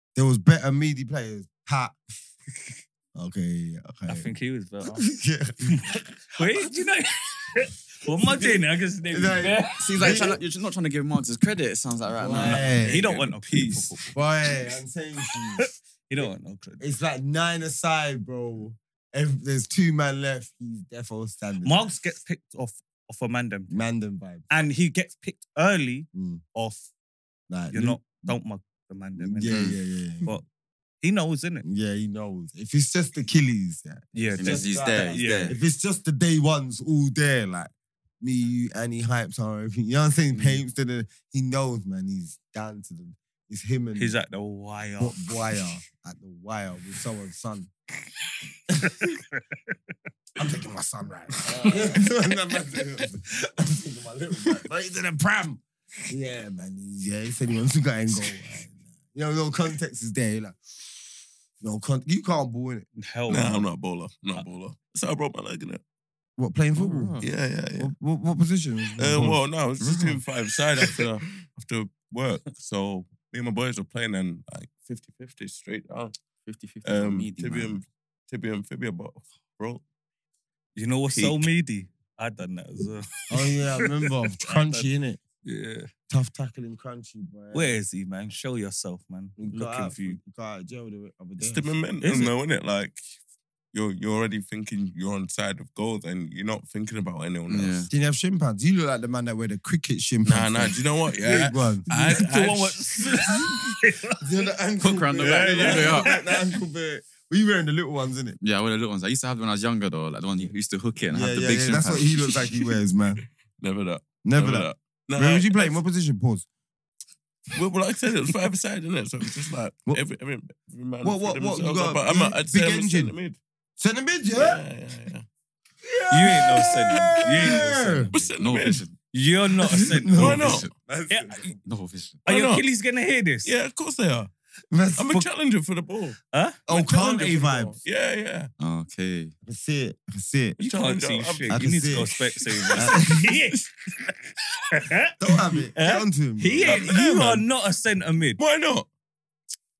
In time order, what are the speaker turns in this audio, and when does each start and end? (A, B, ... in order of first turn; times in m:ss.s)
0:00.1-0:02.0 A
0:03.1-0:04.3 A
0:04.1-0:05.0 B
0:04.8-0:06.7 A
0:06.4-0:10.2 B
0:08.1-0:10.4 A
0:09.8-0:12.7 C
0:12.2-0:13.0 A
0:12.3-0:14.5 B
0:12.8-0:14.0 D
0:14.1-0:15.7 A
0:15.6-0:16.8 B
0:16.2-0:21.9 A
0:21.6-0:23.8 B
0:23.7-0:24.5 A
0:24.5-0:26.8 B
0:26.1-0:26.4 A
0:27.5-0:28.4 A
0:27.7-0:30.4 B
0:29.2-0:30.3 A
0:29.4-0:29.8 C
0:31.0-0:31.6 B
0:31.6-0:44.2 A
0:34.1-0:35.6 B
0:34.4-0:35.6 C
0:44.0-0:45.2 B
0:45.0-0:47.7 A
0:48.8-0:49.7 B
0:50.4-1:00.6 A
1:01.6-1:02.9 A
1:03.0-1:03.6 B
1:03.3-1:05.8 D
1:06.4-1:07.2 A
1:06.8-1:07.3 C
1:07.2-1:07.9 D
1:07.8-1:10.2 A
1:09.0-1:16.1 D
1:16.4-1:17.8 C
1:16.8-1:19.8 D
1:20.8-1:24.9 B
1:21.1-1:21.5 D
1:23.3-1:25.2 A
1:25.4-1:25.9 B
1:26.1-1:27.7 A
1:27.5-1:30.2 B
1:29.4-1:31.7 A
1:31.4-1:33.0 D
1:32.0-1:32.3 B
1:33.7-1:37.9 D
1:37.5-1:37.9 C
1:37.9-1:41.9 A
1:40.2-1:43.2 D
1:41.2-1:44.2 B
1:44.1-1:48.4 A
1:44.8-1:46.2 C
1:45.2-1:46.2 B
1:48.4-1:52.4 C
1:51.1-1:53.2 A
1:53.6-1:55.8 D
1:54.2-1:56.4 A
1:57.5-2:03.4 D
2:01.0-2:03.1 A
2:03.8-2:04.6 A
2:04.3-2:05.2 D
2:05.8-2:08.1 A
2:06.1-2:08.3 B
2:06.3-2:08.8 D
2:08.4-2:08.9 C
2:09.1-2:10.6 B
2:09.8-2:10.7 D
2:09.8-2:11.6 A
2:10.2-2:10.7 C
2:11.1-2:11.5 B
2:11.6-2:12.2 C
2:12.2-2:13.5 B
2:12.3-2:12.6 D
2:13.4-2:14.3 D
2:14.7-2:15.2 A
2:15.0-2:16.2 D
2:16.3-2:16.6 B
2:16.7-2:17.8 A
2:16.7-2:18.5 D
2:18.6-2:19.3 C
2:19.4-2:20.6 A
2:20.6-2:23.7 B
2:20.6-2:23.6 D
2:21.5-2:22.1 A
2:22.7-2:23.2 A
2:24.7-2:25.1 B
2:25.2-2:26.9 A
2:25.8-2:28.4 B
2:26.6-2:27.4 D
2:28.4-2:28.9 D